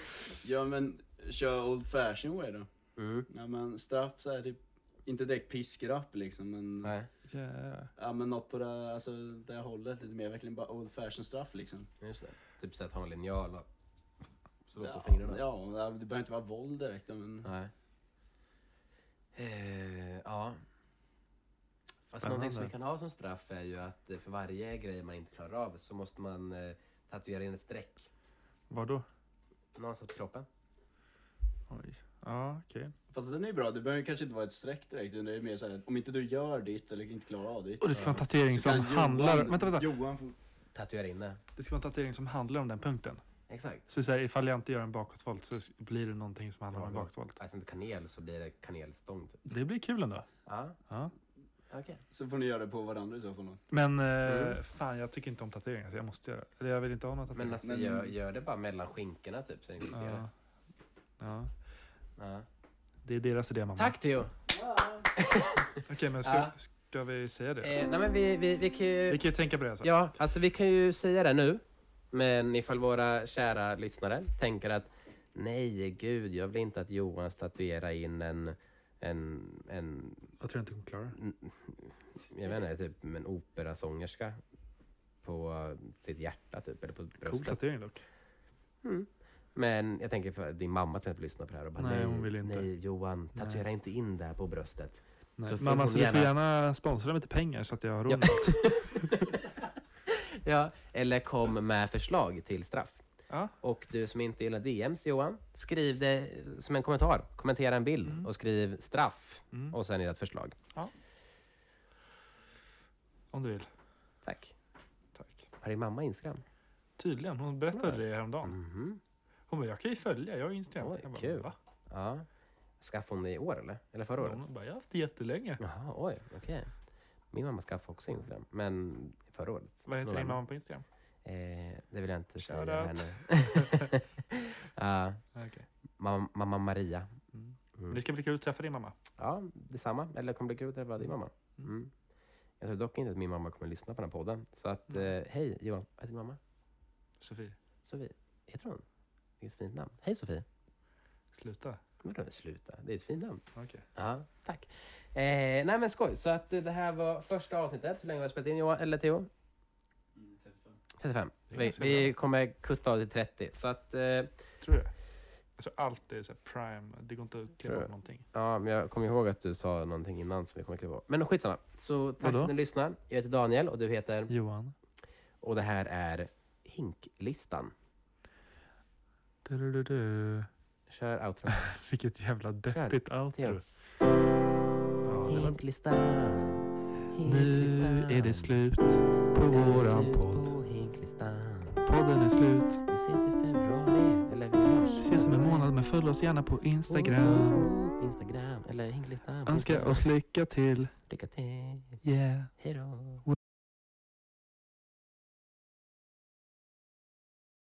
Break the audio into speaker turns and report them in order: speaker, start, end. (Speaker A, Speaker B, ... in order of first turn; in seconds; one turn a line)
Speaker A: 0.4-2.7
Speaker B: 3.0-3.3
Speaker A: 3.3-6.9
Speaker B: 6.8-7.1
Speaker C: 7.3-7.9
Speaker A: 8.0-11.9
Speaker B: 12.0-13.7
Speaker B: 14.7-15.4
Speaker A: 14.8-17.5
Speaker B: 17.4-17.7
Speaker B: 19.4-20.6
Speaker B: 22.1-28.1
Speaker C: 22.1-22.7
Speaker C: 28.7-29.1
Speaker B: 29.8-30.5
Speaker C: 31.7-32.9
Speaker A: 33.1-40.4
Speaker C: 37.8-39.9
Speaker B: 37.9-38.2
Speaker B: 40.7-41.4
Speaker C: 41.6-43.2
Speaker B: 43.5-43.9
Speaker C: 43.9-47.4
Speaker B: 46.7-49.5
Speaker C: 49.5-50.3
Speaker B: 50.5-50.8
Speaker B: 51.7-52.0
Speaker A: 52.1-53.6
Speaker C: 53.7-57.6
Speaker B: 54.2-54.6
Speaker B: 57.3-60.3
Speaker A: 57.6-58.1
Speaker C: 59.9-60.3
Speaker C: 61.2-61.5
Speaker B: 62.2-62.5
Speaker C: 63.0-64.0
Speaker B: 63.8-64.3
Speaker A: 64.5-65.1
Speaker B: 65.2-66.5
Speaker C: 65.8-67.8
Speaker B: 67.6-69.2
Speaker C: 69.1-69.9
Speaker B: 69.8-80.3
Speaker C: 80.4-81.2
Speaker B: 81.2-84.4
Speaker B: 85.2-87.6
Speaker C: 87.2-88.0
Speaker B: 88.8-96.3
Speaker C: 91.8-92.7
Speaker C: 93.3-93.7
Speaker C: 95.4-99.3
Speaker B: 98.1-99.4
Speaker B: 100.1-103.0
Speaker B: 103.6-110.6
Speaker C: 113.3-113.7
Speaker B: 114.2-114.5
Speaker C: 115.2-115.5
Speaker B: 115.6-116.4
Speaker C: 117.0-118.6
Speaker B: 117.8-119.0
Speaker C: 119.5-121.6
Speaker B: 120.8-122.3
Speaker B: 122.8-124.4
Speaker C: 124.2-125.6
Speaker B: 125.6-126.7
Speaker B: 127.3-130.4
Speaker C: 129.9-130.8
Speaker B: 131.2-135.2
Speaker C: 132.4-133.9
Speaker C: 135.3-135.7
Speaker B: 136.0-137.2
Speaker C: 137.3-139.0
Speaker B: 139.2-141.9
Speaker B: 142.6-146.4
Speaker C: 147.2-147.6
Speaker B: 147.8-148.8
Speaker B: 149.4-150.5
Speaker C: 151.3-151.8
Speaker B: 152.0-153.4
Speaker C: 153.6-153.9
Speaker B: 153.9-159.3
Speaker A: 160.2-160.8
Speaker B: 161.0-164.3
Speaker C: 161.5-162.1
Speaker C: 164.6-164.9
Speaker C: 165.6-168.2
Speaker B: 167.7-174.3
Speaker C: 172.2-172.6
Speaker C: 174.3-174.8
Speaker B: 175.4-177.7
Speaker C: 179.4-180.5
Speaker B: 180.9-181.8
Speaker C: 181.5-183.6
Speaker B: 182.7-183.6
Speaker C: 185.0-185.6
Speaker B: 185.3-188.6
Speaker C: 187.2-190.5
Speaker B: 189.5-191.8
Speaker C: 191.8-192.8
Speaker B: 192.9-195.7
Speaker C: 195.0-197.7
Speaker B: 196.9-200.1
Speaker C: 199.5-200.9
Speaker B: 201.1-202.0
Speaker C: 202.0-202.5
Speaker B: 202.6-203.2